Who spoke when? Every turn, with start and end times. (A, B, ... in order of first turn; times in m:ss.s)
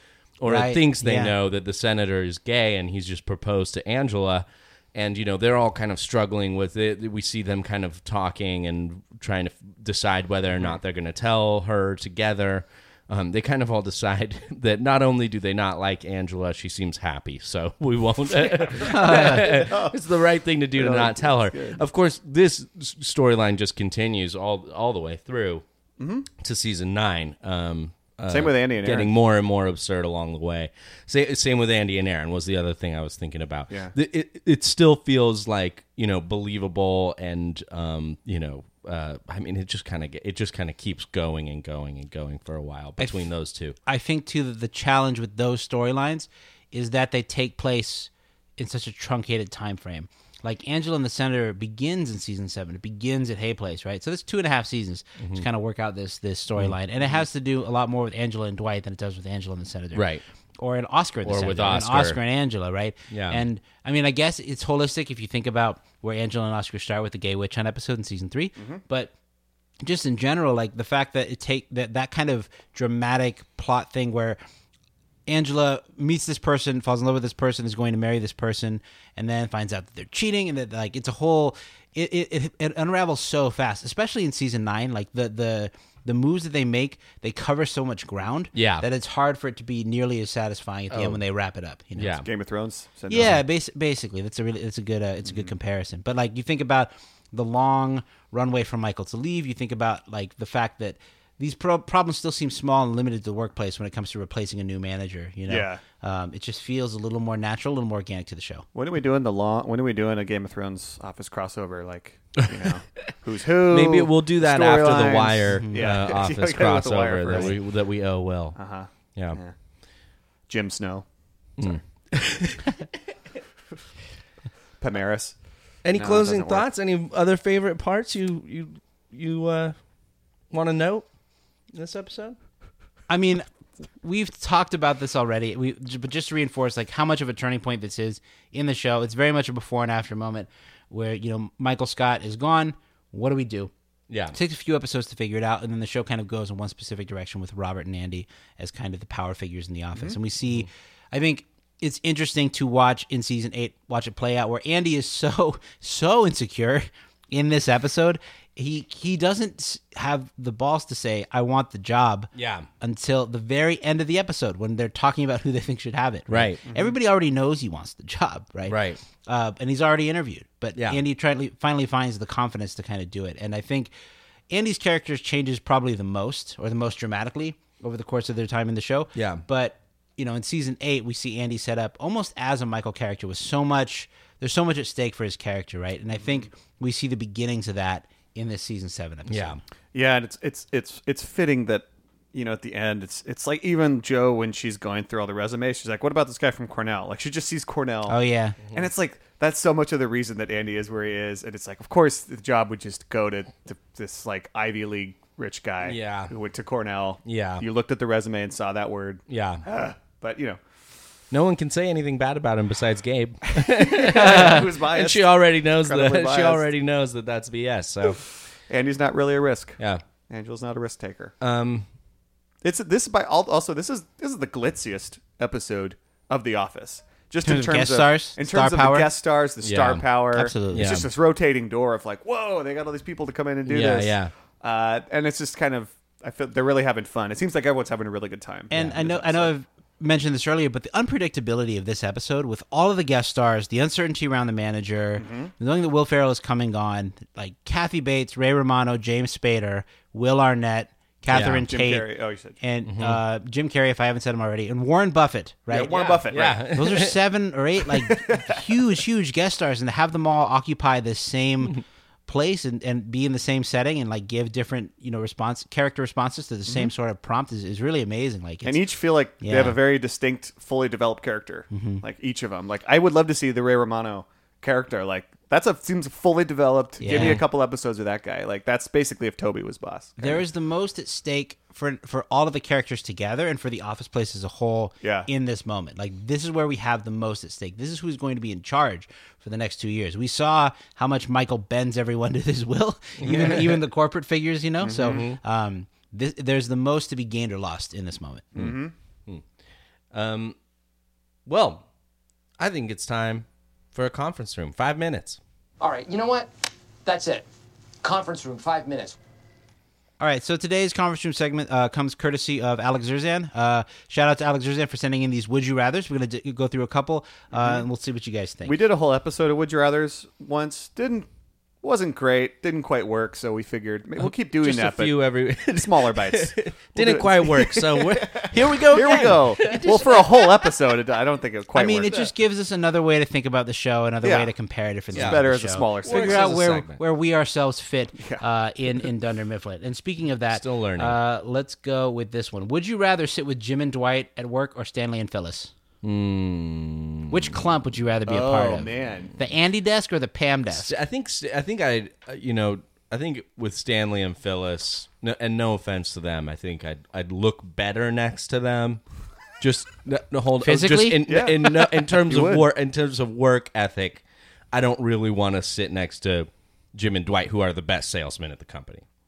0:00.4-0:25.6 A
0:00.5-0:01.3 B
0:18.5-0:20.0 C
0:18.8-0:19.5 B
0:20.7-0:21.8 C
0:26.0-0:26.3 C
0:26.4-0:43.8 A
0:28.3-0:29.1 C
0:43.0-0:43.3 B
0:43.8-1:00.1 B
0:55.2-0:55.4 A
0:59.9-1:00.2 A
1:00.6-1:09.1 B
1:01.2-1:02.2 A
1:03.1-1:03.4 A
1:08.6-1:08.8 C
1:09.8-1:14.4 B
1:15.3-1:32.2 B
1:28.5-1:28.8 A
1:30.9-1:31.2 A
1:32.0-1:32.3 A
1:32.2-1:33.4 C
1:33.1-1:48.6 B
1:45.5-1:45.8 C
1:48.7-1:57.6 C
1:53.7-1:58.6 A
1:55.6-1:55.9 B
1:58.5-1:59.5 C
2:00.5-2:01.0 C
2:01.6-2:02.7 A
2:04.8-2:05.3 C
2:05.8-2:09.8 A
2:05.9-2:06.7 C
2:10.5-2:11.1 A
2:11.7-2:12.4 A
2:13.1-2:13.4 B
2:14.0-2:23.7 B
2:24.1-2:24.4 A
2:24.3-2:53.9 B
2:42.3-2:42.7 A
2:46.3-2:46.6 A
2:46.7-2:46.9 C
2:48.7-2:49.0 A
2:50.7-2:51.0 A
2:54.5-3:09.6 B
2:59.1-2:59.4 A
3:06.2-3:06.5 C
3:09.3-3:09.6 A
3:09.9-3:18.2 C
3:18.1-3:18.6 B
3:18.7-3:30.6 C
3:25.8-3:26.3 A
3:27.2-3:27.6 A
3:29.3-3:29.6 A
3:31.3-3:38.2 A
3:33.6-3:36.6 C
3:38.7-3:39.8 C
3:40.3-3:41.3 C
3:41.4-3:41.9 A
3:42.6-3:59.5 C
3:47.4-3:49.1 B
3:49.6-3:50.0 A
3:50.3-3:50.9 B
3:50.7-3:51.1 A
3:53.6-3:54.3 A
3:58.7-4:28.8 B
4:05.2-4:05.5 C
4:11.3-4:11.7 A
4:11.7-4:12.5 C
4:12.8-4:13.2 A
4:15.7-4:16.6 C
4:15.7-4:17.2 A
4:17.9-4:18.6 C
4:28.6-4:40.4 C
4:29.4-4:29.8 B
4:31.7-4:32.0 B
4:37.0-4:37.4 B
4:37.1-4:37.4 A
4:40.2-4:58.5 B
4:45.0-4:45.3 C
4:53.2-4:53.8 A
4:54.8-4:55.3 C
4:54.9-4:55.4 A
4:58.5-4:58.9 C
5:00.1-5:00.6 A
5:01.4-5:01.8 A
5:02.6-5:05.4 A
5:05.8-5:07.5 D
5:08.0-5:09.2 D
5:10.2-5:18.8 B
5:17.5-5:17.8 C
5:18.6-5:21.3 C
5:21.8-5:32.3 C
5:24.2-5:30.7 A
5:29.0-5:29.3 B
5:31.7-5:45.7 B
5:34.2-5:34.5 C
5:35.1-5:36.8 C
5:35.1-5:35.4 A
5:36.0-5:37.0 A
5:38.2-5:38.4 C
5:40.5-5:41.2 A
5:46.0-5:47.5 A
5:47.3-5:50.9 B
5:48.3-5:49.3 C
5:50.7-5:59.0 A
5:59.6-6:09.0 A
6:00.6-6:01.3 B
6:01.2-6:02.7 C